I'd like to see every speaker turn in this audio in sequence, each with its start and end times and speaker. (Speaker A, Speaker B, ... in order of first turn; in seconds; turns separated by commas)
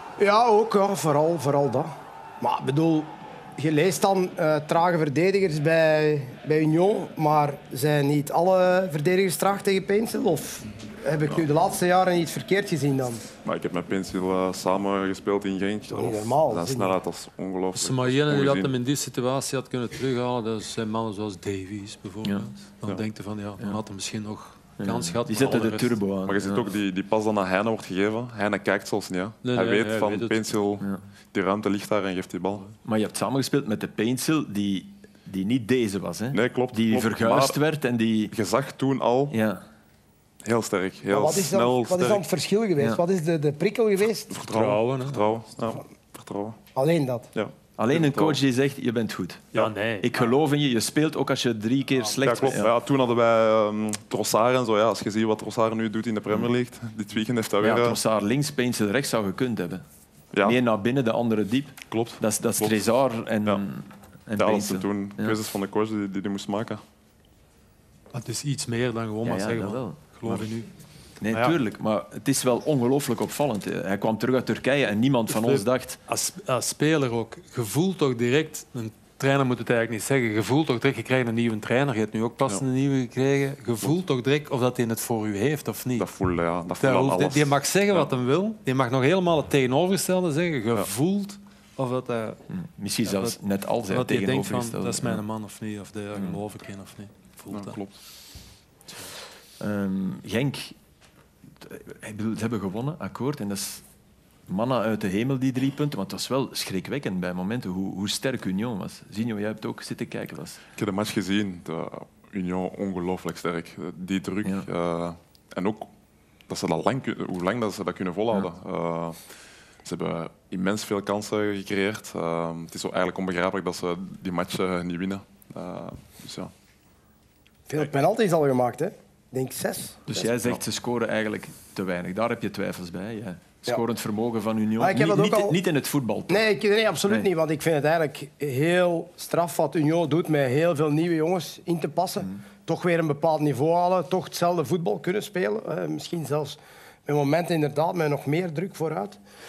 Speaker A: 0.2-13.2, Speaker B: 13.4-18.7, Speaker A: 15.9-17.0, Speaker C: 17.8-26.0, Speaker D: 24.8-26.7, Speaker B: 26.2-32.7, Speaker C: 29.4-30.4, Speaker D: 32.8-38.3, Speaker B: 36.3-37.6, Speaker B: 38.3-39.3, Speaker D: 39.3-39.6, Speaker B: 40.4-42.2, Speaker A: 41.1-44.3, Speaker B: 44.3-46.6, Speaker C: 44.4-45.2, Speaker A: 46.7-47.3, Speaker B: 47.3-48.4, Speaker D: 47.8-52.7, Speaker C: 49.5-50.1, Speaker B: 52.2-58.0, Speaker D: 57.6-59.8, Speaker B: 60.3-60.6, Speaker D: 60.4-65.4, Speaker B: 61.9-62.8, Speaker B: 64.4-66.8, Speaker C: 68.1-70.7, Speaker D: 69.2-70.0, Speaker D: 71.2-76.0, Speaker C: 71.3-71.5, Speaker C: 75.3-86.1, Speaker B: 86.0-88.1, Speaker C: 86.8-92.4, Speaker D: 92.5-95.2, Speaker C: 93.0-93.3, Speaker C: 93.9-97.8, Speaker B: 97.5-98.0, Speaker D: 99.6-100.7, Speaker D: 101.6-103.8, Speaker D: 104.5-110.6, Speaker B: 110.8-115.9, Speaker B: 116.5-119.2, Speaker B: 119.8-126.5, Speaker A: 127.7-130.2, Speaker D: 130.1-136.4, Speaker A: 134.8-135.6, Speaker A: 136.3-149.2